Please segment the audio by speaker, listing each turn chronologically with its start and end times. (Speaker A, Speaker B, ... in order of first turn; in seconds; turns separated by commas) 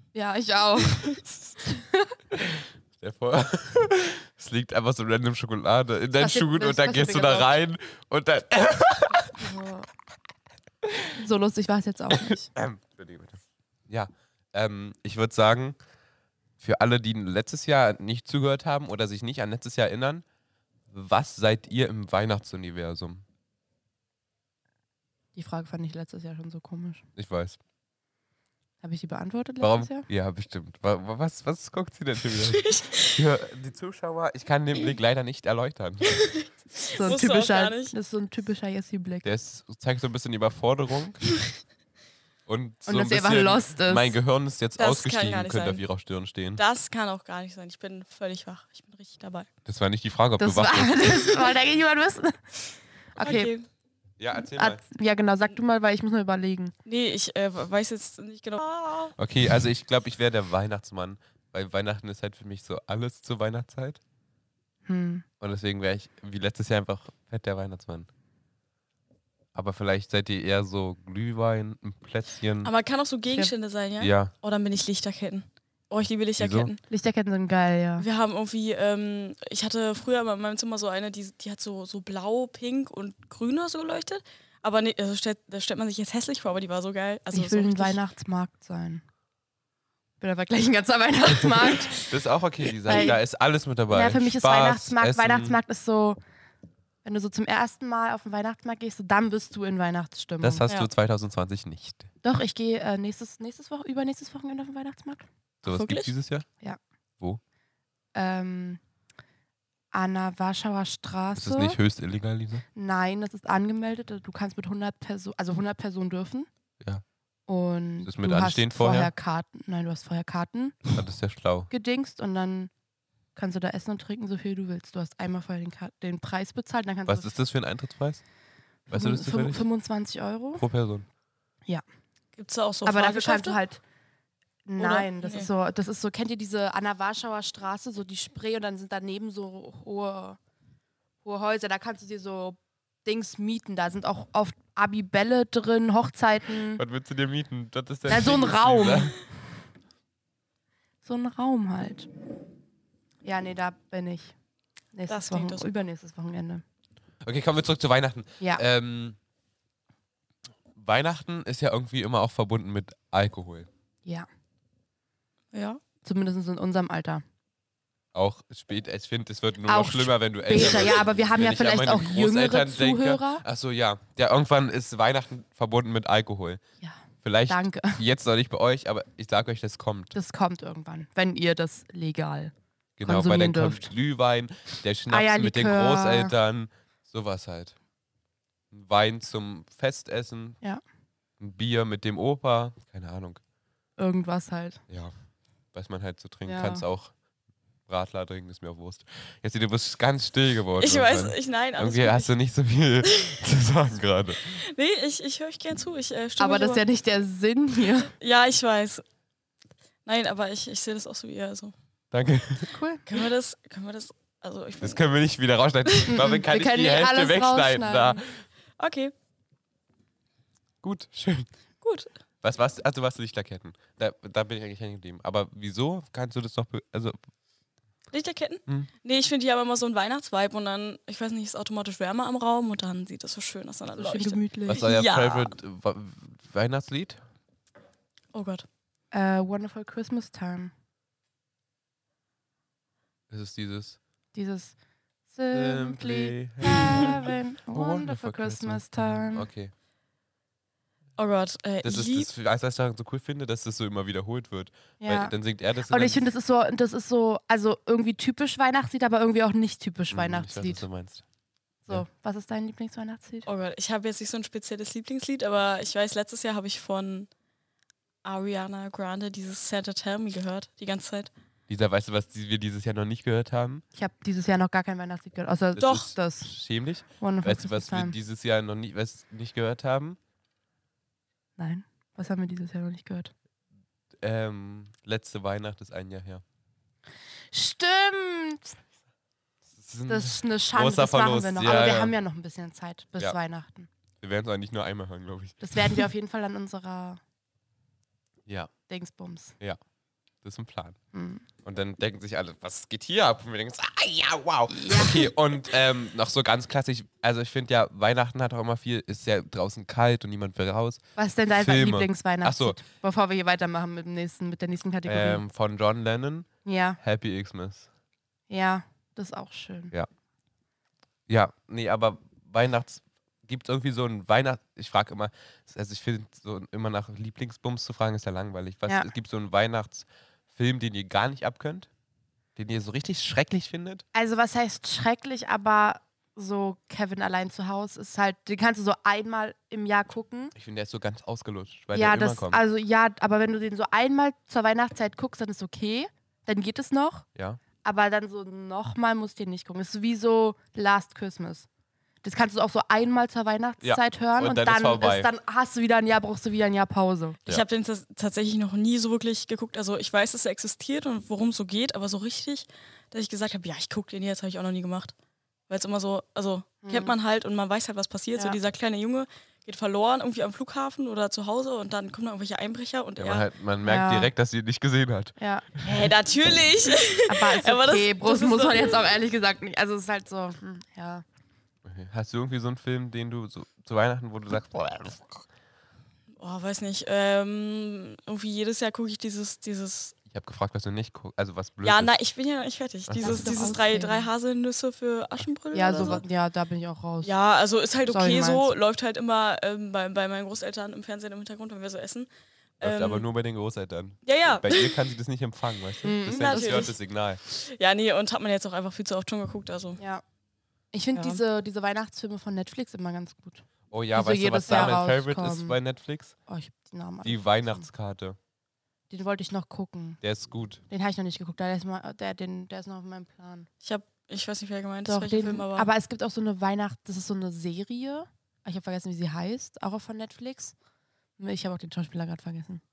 Speaker A: 0.1-2.2, Speaker B: 2.4-9.4, Speaker A: 6.2-7.5, Speaker A: 9.4-9.9, Speaker A: 11.2-12.5, Speaker B: 12.1-15.8, Speaker B: 16.6-20.2, Speaker B: 20.9-23.2, Speaker A: 25.4-27.1, Speaker B: 27.2-27.6, Speaker A: 28.8-30.1, Speaker B: 29.6-36.2, Speaker C: 32.4-33.1, Speaker C: 36.1-37.9, Speaker A: 36.9-39.3, Speaker B: 39.2-41.2, Speaker B: 42.5-46.6, Speaker A: 42.9-44.2, Speaker C: 44.8-45.8, Speaker C: 46.6-49.5, Speaker B: 49.7-51.5, Speaker A: 50.4-52.4, Speaker A: 53.2-53.5, Speaker C: 53.2-53.7, Speaker B: 54.2-54.8, Speaker A: 54.4-56.7, Speaker C: 56.9-59.1, Speaker B: 59.2-64.0, Speaker A: 64.9-65.2, Speaker B: 65.4-68.1, Speaker B: 69.5-72.7, Speaker C: 72.6-76.8, Speaker B: 74.0-74.3, Speaker B: 76.4-76.7, Speaker A: 76.9-78.1, Speaker C: 78.0-88.0, Speaker A: 87.3-89.0, Speaker A: 90.2-92.0, Speaker B: 92.0-95.6, Speaker A: 92.9-93.2, Speaker C: 92.9-93.2, Speaker A: 93.9-96.2, Speaker A: 97.0-100.7, Speaker B: 100.4-102.1, Speaker A: 102.2-105.3, Speaker B: 105.6-106.5, Speaker C: 105.7-106.1, Speaker A: 108.2-108.8, Speaker A: 109.9-111.8, Speaker B: 111.4-112.6, Speaker A: 112.7-116.5, Speaker A: 117.5-120.9, Speaker B: 118.0-119.1, Speaker B: 120.9-121.7, Speaker A: 121.7-122.7, Speaker A: 123.3-127.3, Speaker B: 127.1-128.2, Speaker A: 128.9-130.7, Speaker B: 128.9-129.7, Speaker B: 130.6-131.1, Speaker C: 132.3-133.6, Speaker A: 132.8-133.8, Speaker A: 134.7-140.4, Speaker C: 134.8-135.5, Speaker A: 141.2-146.8, Speaker B: 146.8-149.2, Speaker A: 148.1-149.2, Speaker A: 151.0-152.1, Speaker A: 153.2-154.3, Speaker A: 154.9-156.6, Speaker C: 155.1-155.7, Speaker B: 157.2-159.2, Speaker B: 160.8-163.7, Speaker C: 165.5-165.8, Speaker A: 166.0-167.2, Speaker B: 168.1-176.6, Speaker A: 169.7-173.4, Speaker A: 176.8-178.0, Speaker B: 177.2-180.2, Speaker A: 180.1-183.9, Speaker B: 183.0-187.8, Speaker A: 185.1-186.3, Speaker B: 188.7-190.6, Speaker B: 191.4-193.4, Speaker A: 194.0-194.8, Speaker B: 195.7-197.1, Speaker A: 196.5-196.8, Speaker B: 197.9-204.6, Speaker C: 200.8-202.3, Speaker C: 203.0-203.4, Speaker C: 204.4-206.8, Speaker A: 206.4-208.1, Speaker C: 208.1-209.0, Speaker C: 210.0-211.7, Speaker B: 212.1-212.7, Speaker A: 212.7-213.0, Speaker C: 213.1-215.0, Speaker B: 214.8-218.4, Speaker C: 215.8-216.2, Speaker A: 216.1-218.2, Speaker C: 218.8-219.1, Speaker B: 220.8-221.5, Speaker C: 221.8-222.1, Speaker B: 222.4-227.2, Speaker C: 228.1-235.5, Speaker A: 234.0-234.8, Speaker B: 234.7-237.2, Speaker C: 238.3-238.7, Speaker A: 239.1-240.7, Speaker B: 243.3-244.0, Speaker A: 244.3-244.8, Speaker A: 245.3-249.5, Speaker B: 245.5-249.7, Speaker C: 251.2-252.3, Speaker B: 251.8-256.2, Speaker A: 255.0-255.3, Speaker A: 255.9-260.9, Speaker B: 260.1-261.2, Speaker A: 261.9-263.5, Speaker C: 263.5-267.3, Speaker C: 268.2-271.3, Speaker B: 271.7-273.8, Speaker A: 273.9-276.5, Speaker C: 275.8-276.1, Speaker B: 275.9-280.2, Speaker A: 277.2-278.1, Speaker A: 281.6-283.3, Speaker B: 284.2-286.4, Speaker A: 287.5-288.8, Speaker B: 289.7-292.2, Speaker A: 290.1-293.9, Speaker B: 294.2-296.0, Speaker A: 295.6-297.2, Speaker B: 298.5-298.7, Speaker A: 298.9-299.6, Speaker B: 300.4-301.0, Speaker A: 301.1-301.4, Speaker B: 301.6-312.8, Speaker A: 304.7-305.3, Speaker A: 311.1-315.4, Speaker B: 315.0-316.5, Speaker A: 316.6-317.0, Speaker B: 317.0-317.9, Speaker A: 318.5-319.9, Speaker B: 321.3-331.9, Speaker B: 332.6-334.0, Speaker A: 334.1-340.5, Speaker B: 340.5-342.6, Speaker A: 341.9-347.2, Speaker B: 347.4-347.6, Speaker A: 347.8-351.7, Speaker A: 352.2-357.4, Speaker B: 353.8-355.3, Speaker C: 357.5-365.1, Speaker C: 365.7-373.5, Speaker A: 366.8-367.1, Speaker B: 373.2-376.1, Speaker A: 373.8-374.3, Speaker A: 375.4-375.6, Speaker C: 375.8-379.0, Speaker A: 377.3-381.2, Speaker B: 381.9-385.4, Speaker C: 386.4-390.1, Speaker B: 390.3-392.1, Speaker C: 391.8-396.2, Speaker B: 393.1-393.8, Speaker A: 393.2-394.3, Speaker A: 395.7-397.3, Speaker C: 397.2-402.3, Speaker A: 398.1-398.8, Speaker C: 402.8-403.3, Speaker B: 402.8-407.4, Speaker C: 404.2-405.0, Speaker A: 406.0-406.9, Speaker C: 406.3-410.0, Speaker A: 410.0-410.2, Speaker A: 410.9-415.8, Speaker C: 411.1-411.4, Speaker B: 413.9-416.4, Speaker A: 416.4-417.9, Speaker B: 417.2-418.4, Speaker A: 419.1-420.2, Speaker B: 420.2-420.8, Speaker A: 420.9-423.7, Speaker C: 423.8-425.9, Speaker A: 425.1-430.8, Speaker A: 431.4-432.8